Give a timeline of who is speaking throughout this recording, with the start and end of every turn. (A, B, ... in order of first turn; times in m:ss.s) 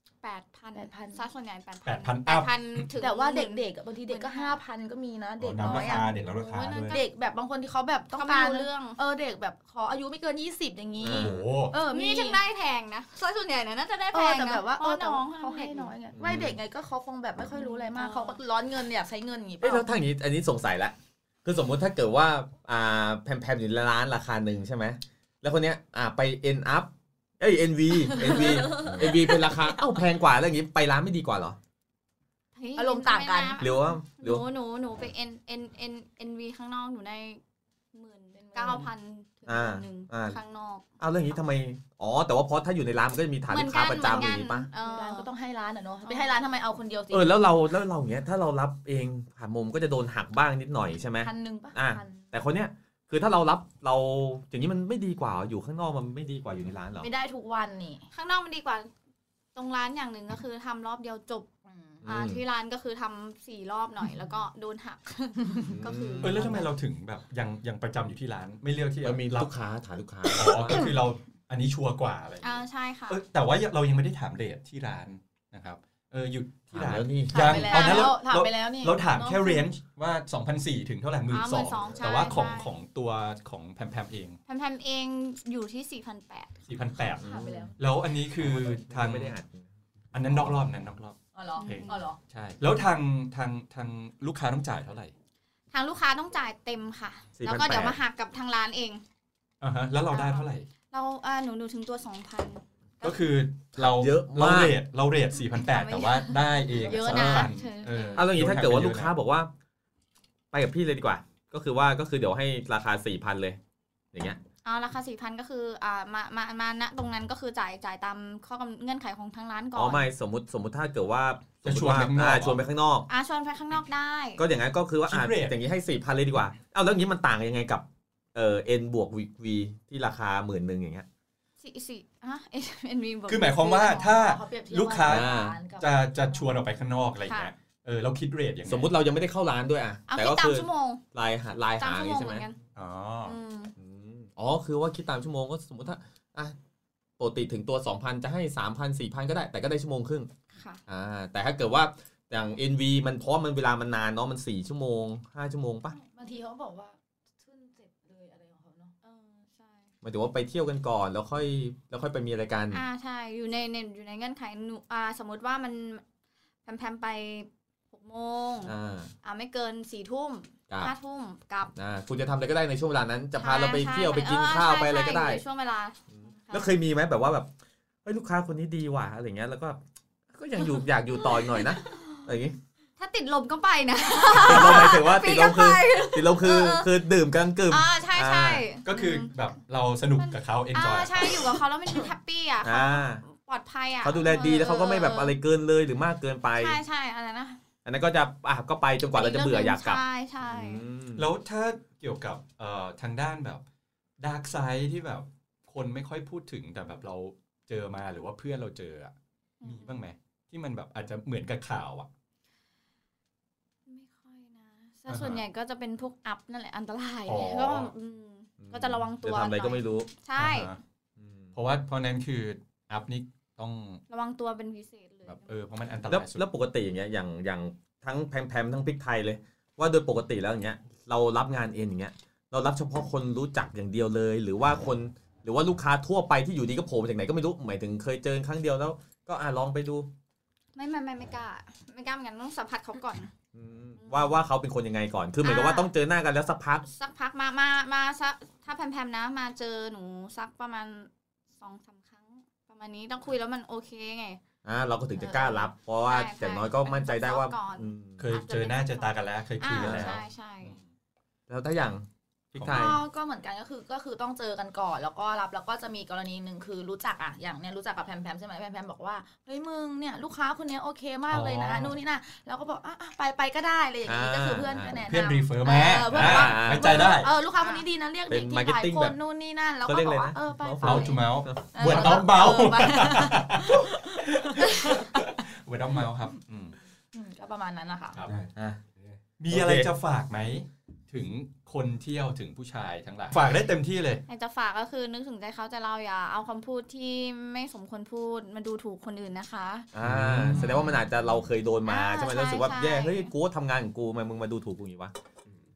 0:00.2-0:04.6 A
0:00.7-0:01.2 B
0:01.9-0:02.9 C
0:03.0-0:06.1 B
0:05.4-0:07.0 D
0:06.4-0:07.1 A
0:06.9-0:12.4 B
0:08.1-0:09.0 A
0:11.0-0:11.4 E
0:11.1-0:11.7 C
0:11.7-0:15.9 A
0:14.1-0:19.9 B
0:16.2-0:16.6 E
0:17.5-0:18.4 A
0:19.6-0:31.6 E
0:28.2-0:29.5 B
0:28.3-0:29.0 A
0:32.6-0:37.4 A
0:32.8-0:33.7 B
0:33.6-0:34.4 E
0:37.9-0:40.9 A
0:38.4-0:38.9 B
0:39.5-0:40.4 E
0:41.0-0:44.7 E
0:43.5-0:45.3 A
0:44.8-0:47.4 B
0:46.0-0:46.4 A
0:47.1-0:57.1 E
0:51.2-0:52.3 B
0:57.0-0:58.0 B
0:58.1-0:58.9 A
0:59.6-1:01.5 A
1:01.7-1:02.0 B
1:02.0-1:02.4 E
1:02.0-1:06.6 A
1:05.4-1:06.6 B
1:05.7-1:06.4 E
1:06.2-1:09.5 C
1:09.0-1:10.9 E
1:10.3-1:24.4 C
1:12.4-1:13.2 A
1:16.7-1:17.6 E
1:17.3-1:18.2 A
1:17.3-1:19.7 B
1:21.3-1:22.7 A
1:24.5-1:26.6 A
1:26.7-1:27.2 C
1:27.2-1:27.7 E
1:27.2-1:27.7 B
1:27.8-1:29.4 C
1:28.3-1:29.7 E
1:30.1-1:35.1 C
1:30.3-1:30.6 E
1:31.4-1:32.2 B
1:31.6-1:32.0 A
1:35.7-1:39.0 A
1:37.4-1:38.0 E
1:39.6-1:40.7 C
1:40.1-1:43.3 A
1:43.0-1:49.1 C
1:43.7-1:44.8 E
1:45.5-1:48.3 A
1:47.0-1:47.5 E
1:48.1-1:49.5 E
1:50.5-1:53.6 E
1:54.1-1:54.4 E
1:54.6-2:00.1 A
1:59.7-2:03.1 E
2:01.6-2:02.6 C
2:03.1-2:04.4 A
2:04.4-2:11.1 E
2:05.1-2:05.6 C
2:11.6-2:14.0 A
2:13.3-2:19.0 C
2:13.6-2:16.6 B
2:15.0-2:15.6 E
2:17.2-2:17.5 A
2:18.6-2:22.4 E
2:20.1-2:21.0 A
2:21.8-2:22.6 A
2:22.7-2:23.4 C
2:23.2-2:23.7 A
2:23.8-2:26.6 E
2:27.2-2:30.3 E
2:30.5-2:30.8 A
2:30.9-2:36.0 E
2:36.0-2:39.0 B
2:39.0-2:39.9 A
2:40.0-2:42.8 E
2:42.7-2:46.0 A
2:46.6-2:51.7 A
2:48.6-2:49.1 E
2:51.7-2:55.4 E
2:53.4-2:56.7 A
2:56.1-2:57.5 E
2:58.0-2:59.8 E
3:00.3-3:02.6 E
3:01.2-3:02.3 A
3:03.0-3:07.0 A
3:04.3-3:08.8 E
3:07.7-3:09.3 A
3:08.8-3:11.6 C
3:10.2-3:15.4 A
3:12.6-3:13.2 E
3:14.0-3:16.8 E
3:16.6-3:17.6 A
3:17.8-3:21.3 E
3:19.1-3:20.9 A
3:21.2-3:23.6 C
3:24.2-3:32.1 C
3:29.6-3:30.0 A
3:33.9-3:40.7 A
3:35.1-3:35.4 C
3:37.3-3:37.9 C
3:38.6-3:40.1 E
3:40.4-3:40.8 C
3:41.2-3:41.6 E
3:41.6-3:44.0 C
3:44.1-3:46.0 A
3:45.3-3:46.4 C
3:46.1-4:00.1 E
4:00.7-4:03.3 A
4:03.5-4:06.8 E
4:04.0-4:04.4 A
4:05.4-4:05.9 A
4:06.8-4:14.4 A
4:14.6-4:18.3 E
4:15.2-4:20.8 A
4:18.2-4:20.8 C
4:19.7-4:20.2 E
4:21.5-4:22.0 E
4:22.5-4:23.0 C
4:22.6-4:23.0 E
4:22.7-4:45.3 B
4:31.3-4:32.0 C
4:34.1-4:35.0 E
4:35.0-4:37.3 C
4:36.1-4:37.2 E
4:37.2-4:37.9 A
4:38.3-4:39.2 E
4:39.9-4:42.2 E
4:40.8-4:41.2 A
4:40.8-4:46.8 C
4:47.1-4:48.2 B
4:48.1-4:48.4 C
4:48.2-4:49.1 D
4:48.6-4:48.8 E
4:49.4-4:54.2 C
4:49.5-4:49.9 E
4:54.3-4:59.9 A
4:59.9-5:05.1 E
5:00.0-5:01.0 C
5:01.8-5:03.3 A